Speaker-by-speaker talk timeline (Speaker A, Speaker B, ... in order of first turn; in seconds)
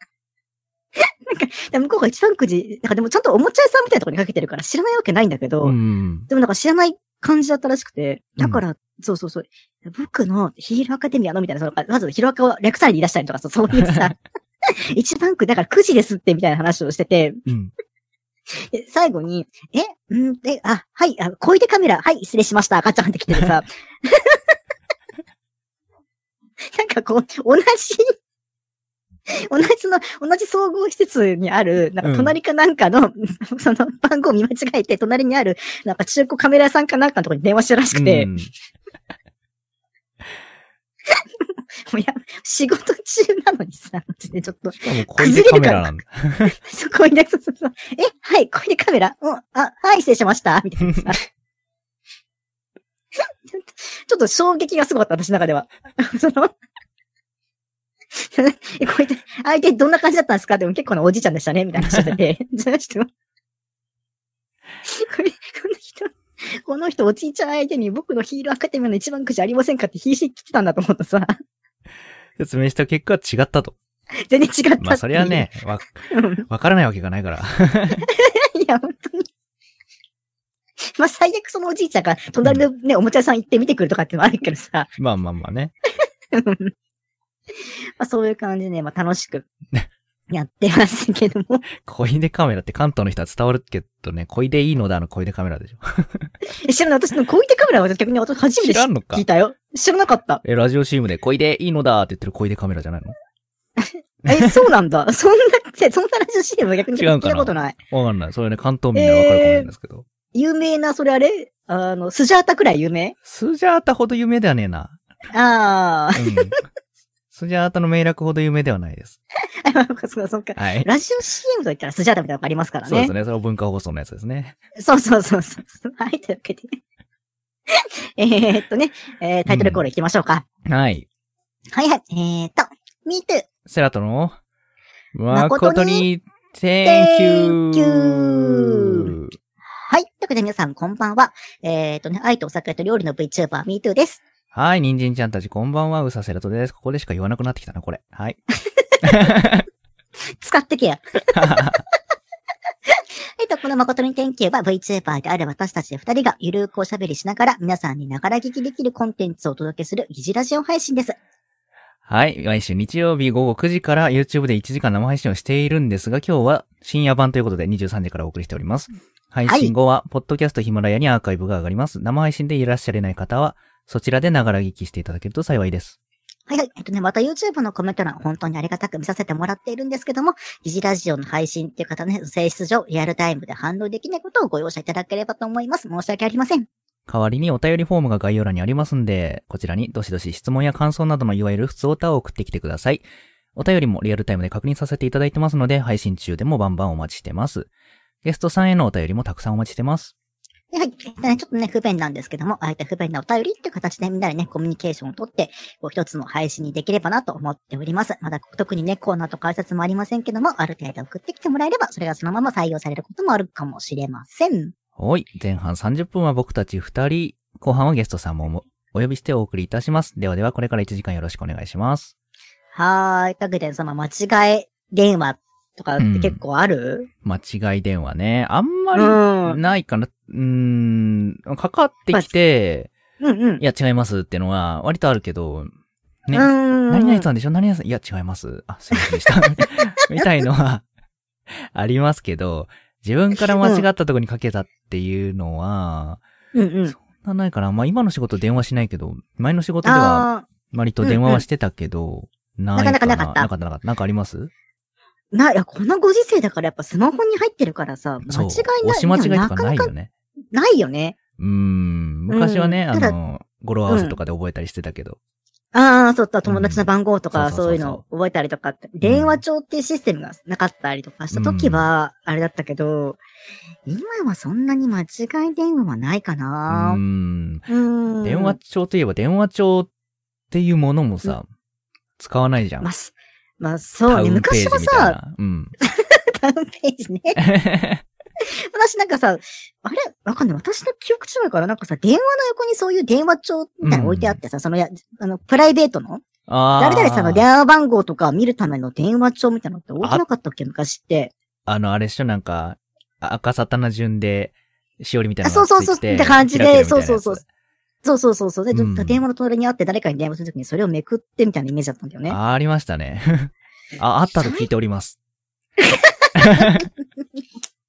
Speaker A: 0.9-5.8, 6.3-17.4, 18.5-24.4, 26.7-28.1, 29.3-38.3, 41.9-45.9, 46.5-51.2, 53.5-56.5, 58.1-63.1, 64.8-71.3, 74.2-75.5, 76.1-76.4, 77.9-79.3, 81.0-84.9, 86.3-86.7, 88.0-89.5, 90.3-91.7, 96.4-100.4, 103.8-107.8, 108.9-109.7, 110.3-113.1, 115.3-116.5, 119.6-123.1, 124.8-126.8, 127.7-130.4, 131.7-133.5, 135.3-136.1, 136.8-139.1, 139.8-144.2, 148.8-149.3, 150.3-151.8, 152.9-161.2, 169.4-169.7, 176.5-186.7, 200.7-214.7, 222.7-227.1, 228.9-229.6, 233.2-233.6, 236.3-237.3, 246.5-246.9, 249.8-250.5, 251.0-251.4, 252.7-253.5, 255.3-259.9, 260.5-261.1, 262.3-263.1, 263.9-264.2, 265.7-273.2, 273.9-277.0, 277.7-278.6, 282.8-285.2, 285.8-287.4, 288.4-296.2, 296.8-301.3, 305.4-307.4, 308.0-312.4, 314.4-314.6, 315.8-316.9
Speaker B: 5.6-6.3, 17.5-17.7, 32.0-32.3, 37.9-38.5, 44.8-46.5, 72.4-73.8, 74.8-78.0, 85.0-85.7, 91.8-96.3, 98.6-99.2, 100.4-103.2, 104.3-104.6, 107.0-110.0, 113.2-115.0, 116.2-116.5, 117.3-119.2, 120.5-120.9, 122.8-124.5, 129.5-129.8, 130.6-131.1, 133.7-134.3, 135.1-139.3, 144.5-148.4, 149.0-149.6, 151.3-151.8, 162.1-176.0, 187.1-197.7, 198.2-200.1, 215.0-222.1, 226.0-226.4, 227.2-232.9, 233.6-235.7, 236.2-240.8, 241.5-246.2, 246.9-254.5, 258.2-260.1, 261.4-265.2, 266.5-268.0, 269.0-269.4, 271.3-271.9, 276.7-277.7, 278.2-279.9, 280.5-281.5, 282.2-282.9, 284.1-285.7, 287.4-288.0, 293.8-294.4, 296.5-297.4, 301.6-307.4, 308.7-309.2, 312.3-315.2, 316.4-316.9